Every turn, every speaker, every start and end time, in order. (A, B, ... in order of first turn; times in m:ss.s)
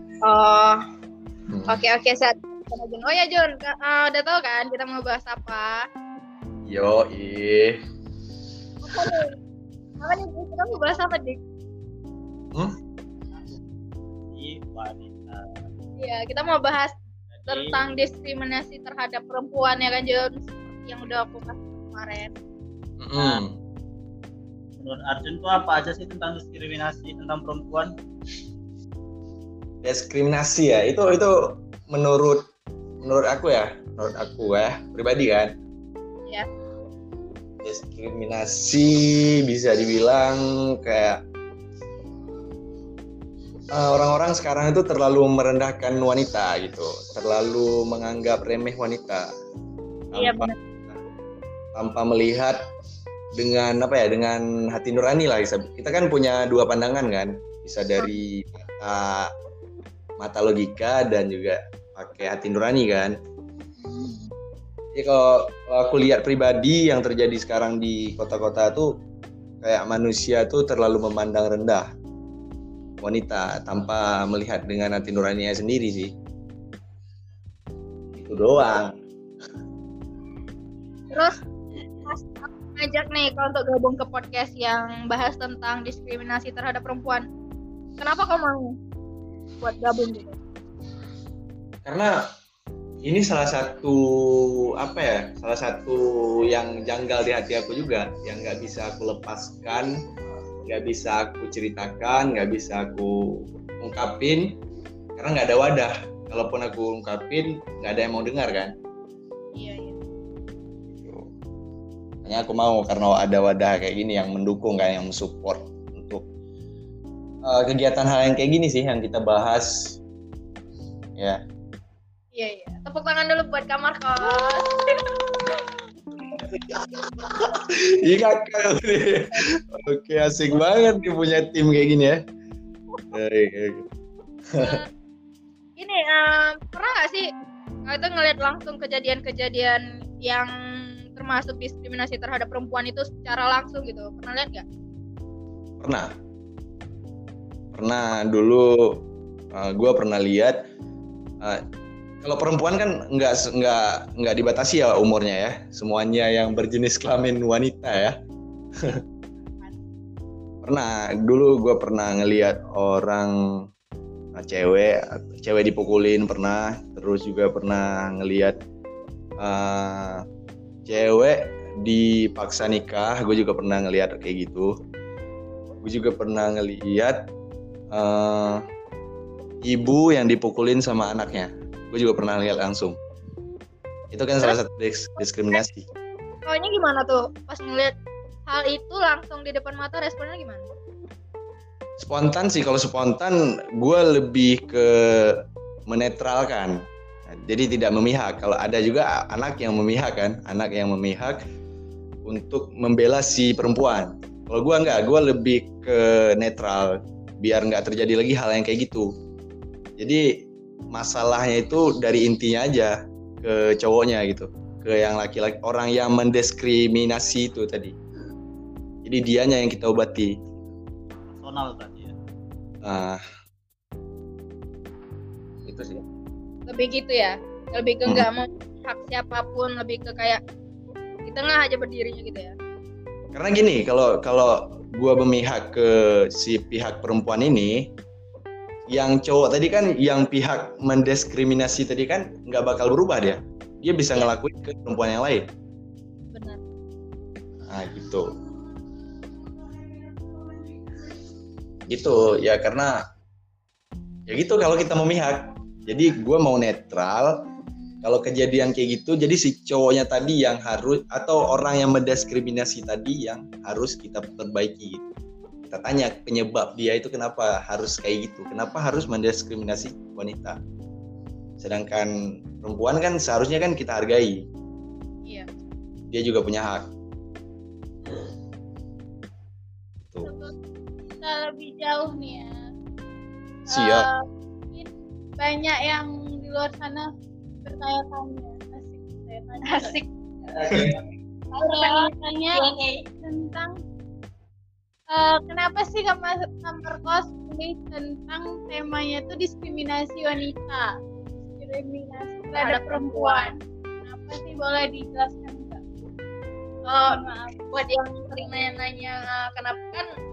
0:00.2-0:00.8 A
0:01.5-0:01.7 B
0:01.7-0:05.8 A
0:06.6-0:07.8 B
0:08.8-0:09.4 A
0:10.0-0:11.4 A
0:14.2-0:15.6 C
0:16.0-0:17.0 A
0:17.3-0:17.8 C
0:17.5-0:22.3 A
0:23.0-0:23.6 B
0:23.2-0:23.4 C
0:24.8-0:27.9 C
0:29.8-0:32.4 B
0:33.0-0:35.5 B
0:37.6-0:41.2 B
0:43.7-0:49.3 B
0:50.1-0:51.0 B
0:50.1-0:50.5 A
0:51.7-0:52.6 B
0:53.4-0:59.3 B
1:00.2-1:03.1 B
1:03.8-1:04.3 A
1:04.9-1:08.9 B
1:09.6-1:11.9 B
1:13.0-1:16.1 B
1:18.1-1:18.9 B
1:21.1-1:21.4 A
1:22.0-1:27.2 A
1:28.0-1:28.8 A
1:29.6-1:30.4 A
1:31.8-1:32.2 B
1:33.0-1:39.9 B
1:40.6-1:44.6 B
1:45.2-1:48.7 B
1:49.5-1:50.0 A
1:50.9-1:51.3 B
1:52.2-1:56.3 B
1:57.4-2:00.0 B
2:02.3-2:04.9 A
2:06.4-2:12.2 B
2:13.1-2:13.8 B
2:14.5-2:14.8 B
2:14.6-2:14.9 A
2:15.8-2:17.3 A
2:17.8-2:20.5 A
2:21.1-2:24.6 A
2:25.8-2:26.1 B
2:27.7-2:29.0 B
2:29.5-2:30.6 B
2:32.2-2:38.1 B
2:40.6-2:43.4 B
2:44.3-2:48.6 B
2:49.4-2:50.2 B
2:50.8-2:54.7 B
2:55.8-2:57.2 B
2:57.9-2:58.6 B
2:59.6-3:03.0 B
3:04.1-3:05.9 B
3:06.4-3:07.9 A
3:08.5-3:10.6 A
3:12.0-3:16.8 B
3:17.3-3:21.4 B
3:22.2-3:29.1 B
3:30.0-3:30.3 B
3:30.9-3:37.9 B
3:39.0-3:40.3 B
3:41.3-3:42.1 C
3:42.8-3:43.2 B
3:45.6-3:46.0 B
3:46.7-3:50.4 A
3:51.2-3:52.5 A
3:53.3-3:57.9 B
3:58.9-4:05.5 B
4:06.3-4:06.6 A
4:07.7-4:08.3 B
4:11.9-4:13.0 B
4:14.3-4:17.4 B
4:18.0-4:25.0 B
4:25.6-4:30.6 B
4:31.6-4:34.4 B
4:36.1-4:36.9 B
4:40.2-4:40.5 D
4:41.2-4:42.5 D
4:43.7-4:47.1 D
4:43.7-4:44.1 B
4:47.6-4:49.9 D
4:49.6-4:50.0 A
4:50.7-4:51.0 B
4:51.5-4:53.0 A
4:51.6-4:53.8 D
4:55.1-5:00.9 D
5:01.5-5:05.8 D
5:02.6-5:03.5 A
5:06.8-5:07.2 A
5:07.1-5:07.6 D
5:07.7-5:10.1 A